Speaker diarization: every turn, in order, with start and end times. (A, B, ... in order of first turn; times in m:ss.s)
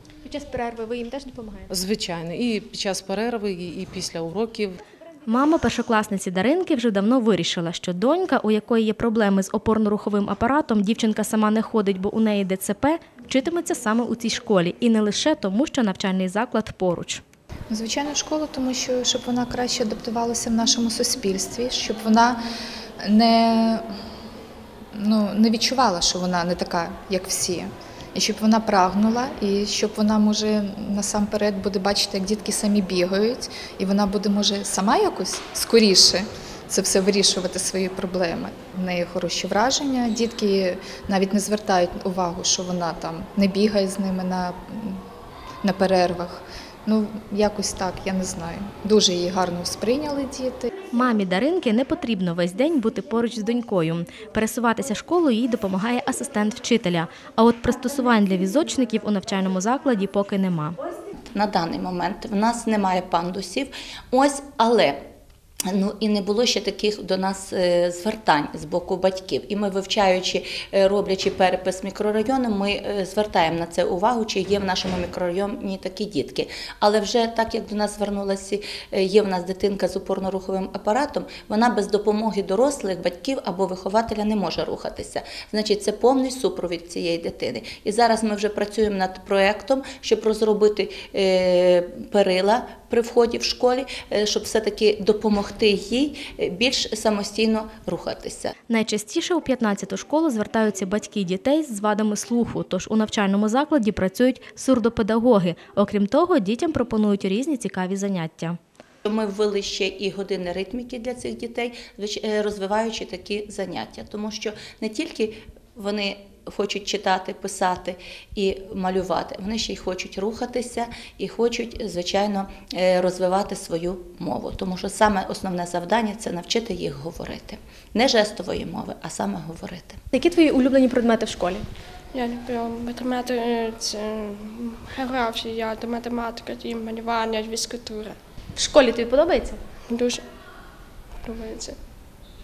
0:00.4-0:01.4 A
0:01.7-0:04.8 B
0:05.3-0:17.2 A
0:17.7-0:22.4 C
0:23.0-0:23.8 C
0:25.0-0:45.0 C
0:45.6-0:50.7 C
0:50.9-1:00.8 A
1:01.3-1:05.0 D
1:05.6-1:38.6 D
1:38.7-1:48.6 A
1:49.0-2:10.0 D
2:10.2-2:11.6 A
2:12.1-2:18.2 E
2:18.6-2:19.6 A
2:19.9-2:20.2 E
2:21.2-2:21.8 E